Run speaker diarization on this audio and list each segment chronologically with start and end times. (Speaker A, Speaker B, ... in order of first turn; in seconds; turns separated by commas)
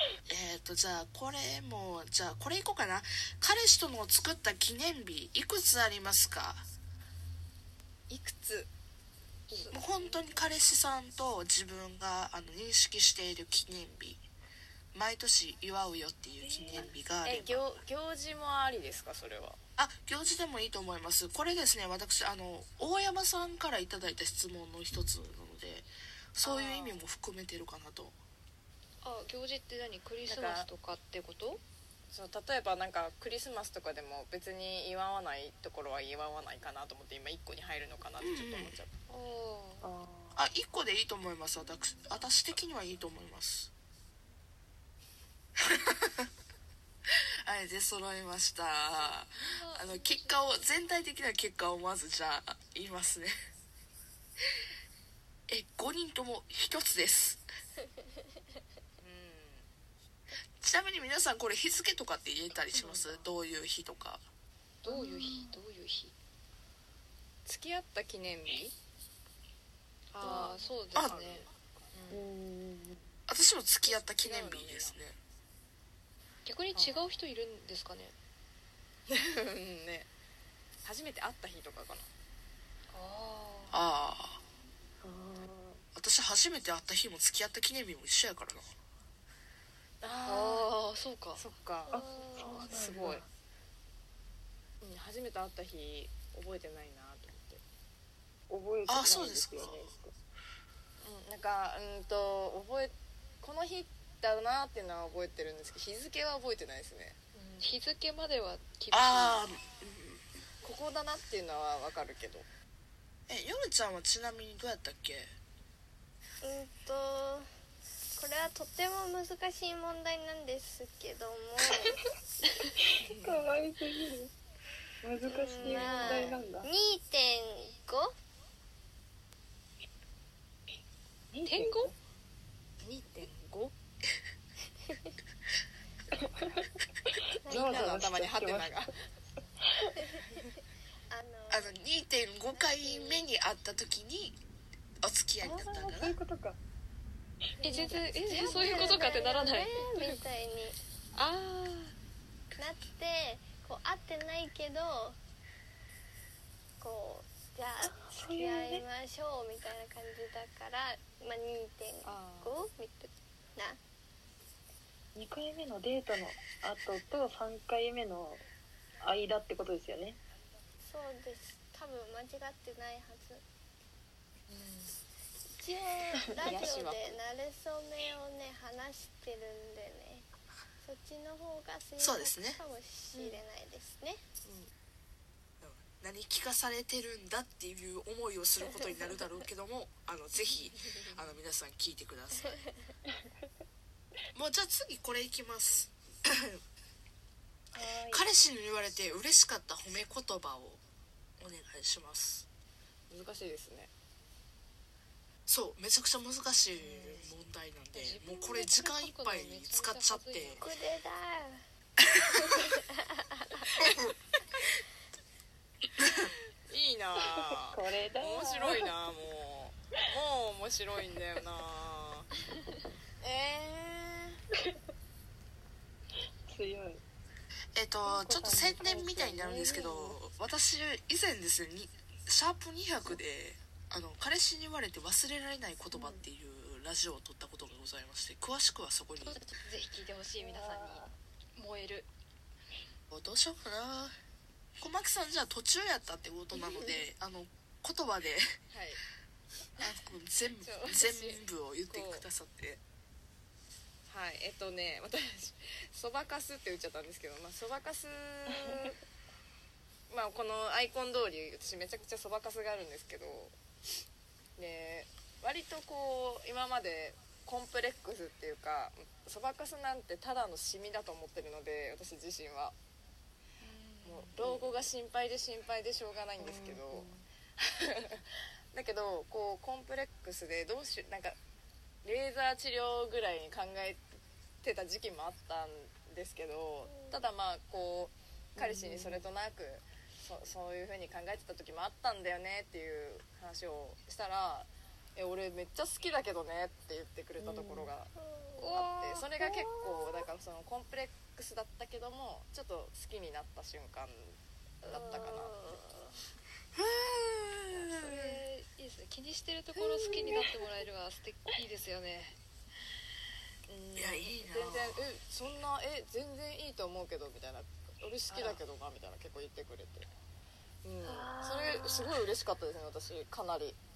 Speaker A: 0.3-6.7, Speaker B: 8.1-8.7, Speaker C: 9.5-10.5, Speaker A: 9.7-14.2, Speaker A: 14.9-17.7, Speaker D: 16.4-17.0, Speaker B: 17.2-19.6, Speaker A: 19.8-28.2, Speaker B: 26.4-27.0, Speaker C: 29.0-31.6, Speaker B: 30.3-30.7, Speaker B: 32.1-38.9, Speaker A: 38.2-38.8, Speaker C: 39.1-39.9, Speaker D: 39.8-40.5, Speaker A: 40.4-43.7, Speaker A: 45.7-46.3, Speaker A: 47.5-53.4, Speaker C: 49.0-50.9, Speaker A: 55.5-57.4, Speaker B: 59.0-59.7, Speaker A: 60.6-64.2, Speaker B: 62.7-63.3, Speaker C: 64.8-66.2, Speaker D: 64.9-65.6, Speaker B: 67.5-68.8, Speaker C: 70.1-72.3, Speaker B: 70.2-72.0, Speaker A: 71.0-71.2, Speaker D: 72.1-73.0, Speaker A: 73.3-75.2, Speaker B: 73.8-75.0, Speaker C: 76.5-78.2, Speaker B: 76.7-77.1, Speaker B: 79.1-80.1, Speaker B: 80.8-82.1, Speaker C: 82.9-83.8, Speaker A: 83.7-84.4, Speaker D: 85.0-85.8, Speaker A: 86.0-88.7, Speaker B: 90.0-90.7, Speaker C: 90.3-91.4, Speaker B: 91.4-93.2, Speaker D: 91.9-93.3, Speaker E: 91.9-92.7, Speaker B: 94.8-97.6, Speaker D: 98.5-100.2, Speaker A: 98.9-99.7, Speaker B: 101.0-107.2, Speaker C: 107.3-109.5, Speaker A: 108.9-110.2, Speaker B: 110.6-112.5, Speaker A: 113.3-115.3, Speaker E: 116.4-117.5, Speaker E: 118.2-121.9, Speaker D: 123.0-124.3, Speaker B: 123.0-123.5, Speaker D: 125.0-126.7, Speaker E: 125.2-128.2, Speaker B: 125.6-126.4, Speaker D: 131.3-131.9, Speaker C: 131.5-131.9, Speaker B: 132.8-133.7, Speaker D: 136.1-136.6, Speaker E: 137.4-138.0, Speaker D: 137.5-138.8, Speaker B: 137.5-138.9, Speaker E: 140.2-140.4, Speaker E: 141.1-141.8, Speaker A: 141.5-144.4, Speaker E: 142.5-143.3, Speaker A: 145.0-146.2, Speaker D: 145.4-146.6, Speaker D: 147.6-149.0, Speaker C: 147.6-150.2, Speaker E: 147.7-150.8, Speaker B: 151.2-151.8, Speaker E: 152.5-155.2, Speaker E: 156.8-163.8, Speaker D: 157.8-158.9, Speaker B: 162.0-162.7, Speaker D: 165.2-168.4, Speaker D: 169.0-170.2, Speaker E: 170.8-173.4, Speaker B: 174.5-174.9, Speaker E: 175.6-180.3, Speaker B: 176.4-177.2, Speaker E: 180.8-184.2, Speaker A: 182.0-182.6, Speaker C: 183.2-183.4, Speaker A: 185.6-192.6, Speaker B: 190.4-191.3, Speaker A: 194.3-195.9, Speaker D: 197.7-198.3, Speaker A: 198.1-200.8, Speaker A: 201.4-202.5, Speaker B: 203.1-203.9, Speaker A: 205.5-210.7, Speaker B: 206.8-207.3, Speaker C: 207.9-210.7, Speaker E: 210.6-211.6, Speaker E: 212.5-213.7, Speaker B: 216.7-222.3, Speaker D: 217.2-218.9, Speaker B: 223.2-224.4, Speaker D: 226.5-227.0, Speaker A: 227.8-239.4, Speaker D: 228.1-230.2, Speaker D: 235.9-236.3, Speaker C: 239.2-242.1, Speaker D: 240.4-241.2, Speaker A: 243.1-244.1, Speaker A: 244.8-248.5, Speaker B: 246.6-247.1, Speaker B: 248.7-249.0, Speaker A: 249.8-252.8, Speaker B: 250.6-252.3, Speaker B: 254.1-259.0, Speaker B: 260.1-263.6, Speaker B: 264.6-272.8, Speaker C: 273.6-274.5, Speaker B: 274.1-281.4, Speaker D: 276.4-277.2, Speaker B: 282.0-284.0, Speaker B: 284.6-298.1, Speaker E: 286.8-287.3, Speaker D: 288.6-289.3, Speaker D: 297.4-297.9, Speaker E: 298.1-298.8, Speaker C: 298.6-299.3, Speaker B: 298.7-305.8, Speaker E: 299.4-300.2, Speaker E: 304.9-306.2, Speaker A: 306.8-308.2, Speaker C: 307.9-312.4, Speaker B: 309.8-310.4, Speaker B: 313.7-320.1, Speaker A: 314.0-315.0, Speaker C: 318.3-318.6, Speaker B: 320.8-323.8, Speaker D: 321.0-322.2